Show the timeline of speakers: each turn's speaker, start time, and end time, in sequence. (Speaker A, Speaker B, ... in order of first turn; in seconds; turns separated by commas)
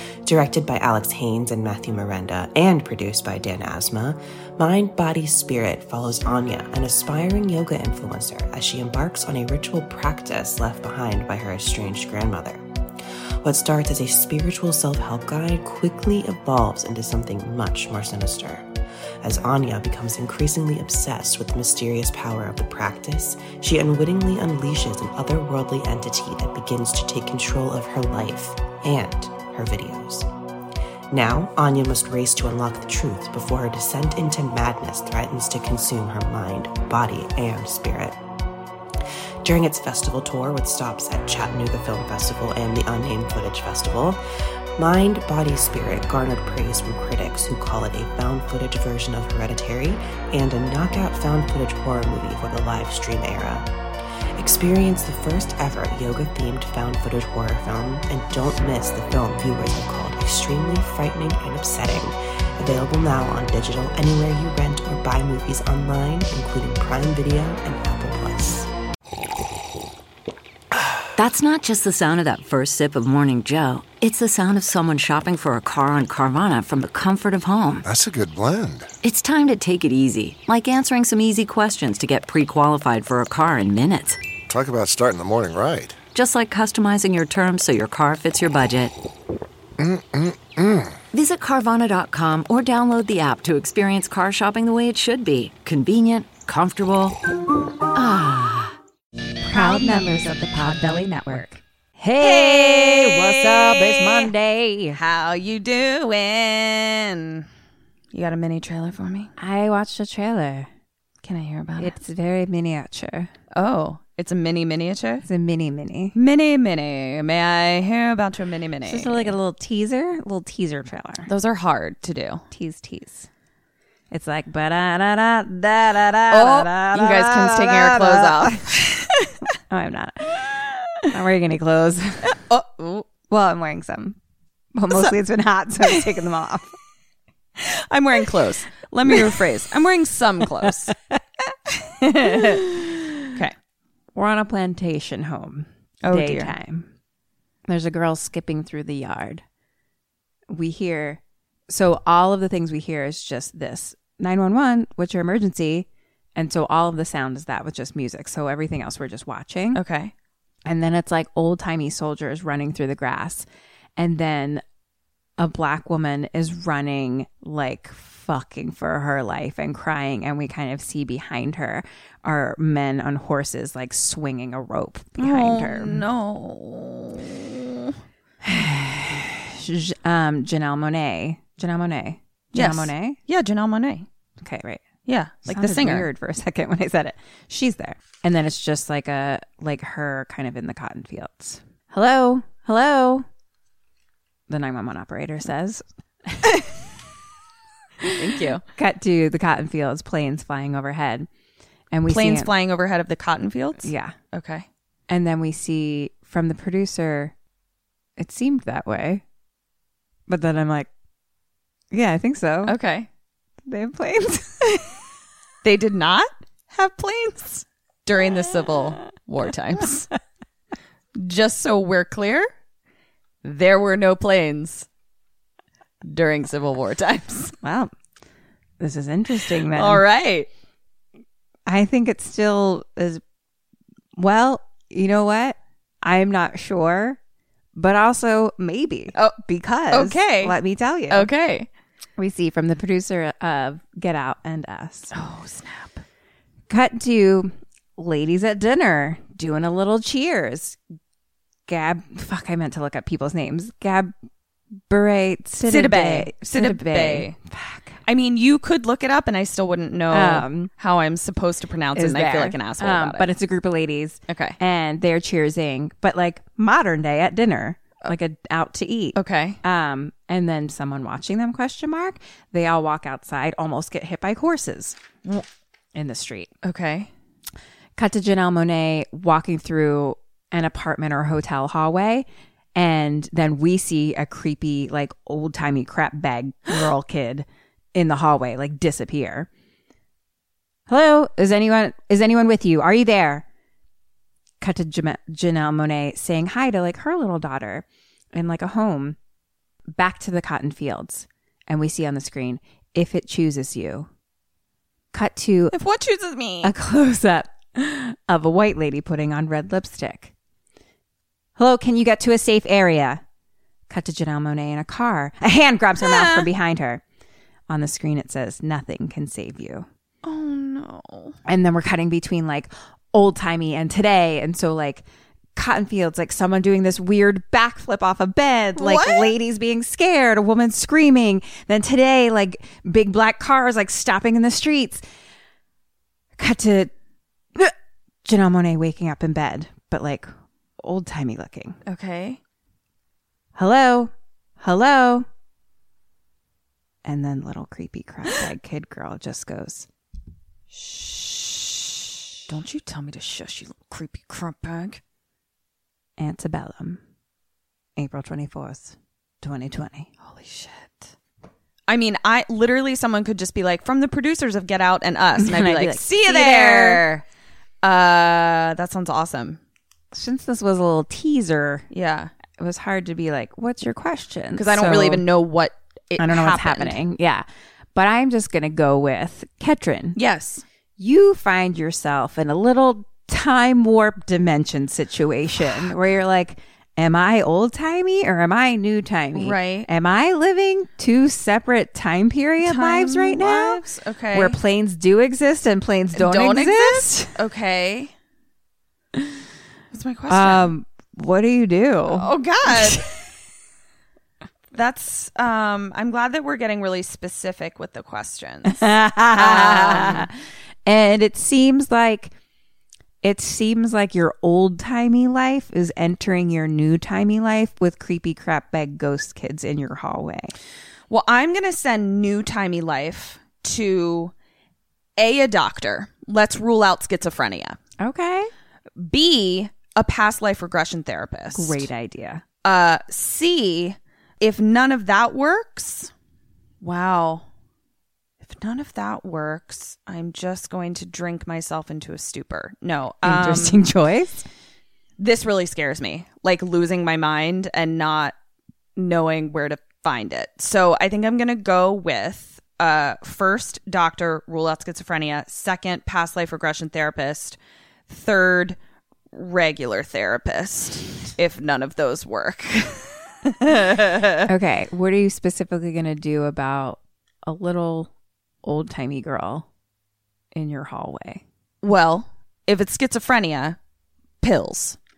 Speaker A: 0.2-12.6, Speaker A: 13.4-18.6, Speaker A: 19.2-30.2, Speaker A: 31.1-38.2, Speaker A: 39.4-44.2, Speaker A: 44.8-53.7, Speaker A: 54.4-68.7, Speaker B: 71.2-77.8, Speaker C: 77.8-78.9, Speaker B: 79.0-84.2, Speaker C: 84.5-86.0, Speaker B: 86.1-88.9, Speaker C: 89.8-90.9, Speaker B: 91.1-97.2, Speaker B: 97.9-98.7, Speaker D: 99.4-105.0, Speaker E: 102.2-104.3, Speaker E: 104.9-107.4, Speaker E: 108.1-109.3, Speaker D: 109.4-110.7, Speaker E: 111.2-112.0, Speaker D: 111.8-113.3, Speaker E: 113.5-115.2, Speaker D: 115.2-116.1, Speaker E: 116.1-119.3, Speaker D: 118.8-121.3, Speaker E: 121.3-122.4, Speaker D: 122.5-123.3, Speaker D: 124.1-128.6, Speaker E: 126.3-129.1, Speaker D: 129.7-130.5, Speaker D: 131.0-132.3, Speaker E: 132.3-133.1, Speaker D: 133.3-134.2, Speaker D: 134.7-136.7, Speaker E: 137.6-140.9, Speaker E: 142.0-142.7, Speaker D: 144.1-146.9, Speaker E: 146.0-146.5, Speaker D: 147.7-149.4, Speaker D: 150.5-159.8, Speaker E: 159.7-160.1, Speaker D: 160.7-163.4, Speaker D: 164.0-164.6, Speaker D: 165.4-176.0, Speaker E: 175.2-177.9, Speaker D: 178.4-183.2, Speaker E: 182.5-184.1, Speaker D: 184.4-184.8, Speaker E: 185.1-186.1, Speaker D: 185.5-193.2, Speaker D: 194.5-196.6, Speaker E: 198.1-198.6, Speaker D: 198.7-201.3, Speaker D: 201.9-202.5, Speaker E: 202.1-204.6, Speaker D: 203.8-204.1, Speaker D: 205.1-207.3, Speaker D: 208.2-209.2, Speaker D: 210.3-210.9, Speaker D: 211.9-212.7, Speaker E: 212.7-213.1, Speaker D: 213.7-214.9, Speaker E: 215.6-220.1, Speaker E: 221.2-222.5, Speaker E: 223.4-224.9, Speaker E: 226.0-227.5, Speaker D: 227.6-227.9, Speaker D: 228.8-230.0, Speaker E: 229.4-230.5, Speaker D: 231.7-233.2, Speaker D: 234.2-237.2, Speaker D: 237.8-241.3, Speaker E: 239.9-240.6, Speaker E: 241.1-241.7, Speaker D: 242.2-245.1, Speaker E: 245.1-246.0, Speaker D: 246.7-250.8, Speaker D: 251.7-254.1, Speaker D: 254.9-258.0, Speaker E: 255.6-257.3, Speaker E: 258.0-263.3, Speaker D: 260.1-260.7, Speaker D: 261.9-275.0, Speaker E: 264.3-264.6, Speaker E: 269.1-269.6, Speaker D: 275.9-276.5, Speaker E: 276.6-277.1, Speaker D: 278.0-289.5, Speaker D: 290.9-293.4, Speaker D: 294.6-299.2, Speaker D: 299.9-304.1, Speaker D: 305.1-305.7, Speaker E: 305.7-306.7, Speaker D: 306.6-310.3, Speaker D: 311.6-313.2, Speaker D: 313.9-317.0, Speaker E: 316.0-316.5, Speaker D: 317.7-319.9, Speaker E: 320.2-321.4, Speaker D: 321.4-335.0, Speaker E: 328.8-329.3, Speaker D: 336.4-336.9, Speaker D: 338.2-340.3, Speaker D: 340.8-341.8, Speaker E: 341.9-342.4, Speaker D: 343.6-345.2, Speaker D: 347.0-349.9, Speaker E: 350.9-351.3, Speaker E: 352.5-355.0, Speaker D: 356.2-357.0, Speaker D: 357.9-360.1, Speaker E: 360.2-361.1, Speaker E: 361.9-367.2, Speaker D: 365.4-367.1, Speaker E: 367.8-369.6, Speaker D: 370.1-371.9, Speaker E: 371.9-372.3, Speaker D: 372.6-375.2, Speaker E: 374.6-377.0, Speaker D: 376.2-380.2, Speaker E: 380.1-380.6, Speaker D: 381.0-397.3, Speaker E: 389.3-389.9, Speaker E: 392.6-394.6, Speaker E: 396.1-398.1, Speaker E: 399.9-400.7, Speaker D: 400.3-403.0, Speaker E: 402.1-403.1, Speaker E: 404.7-410.3, Speaker D: 408.7-410.3, Speaker D: 410.9-412.3, Speaker D: 413.2-420.5, Speaker E: 421.1-424.3, Speaker E: 425.2-427.8, Speaker D: 428.0-428.5, Speaker E: 429.0-431.9, Speaker D: 431.5-432.4, Speaker E: 432.6-436.1, Speaker E: 436.8-437.4, Speaker E: 438.4-443.9, Speaker D: 443.2-444.4, Speaker E: 445.2-448.3, Speaker E: 448.9-457.6, Speaker E: 458.1-458.8, Speaker E: 459.3-464.4, Speaker D: 464.4-468.1, Speaker D: 468.6-469.7, Speaker D: 470.5-471.4, Speaker E: 471.8-473.8, Speaker E: 474.4-475.0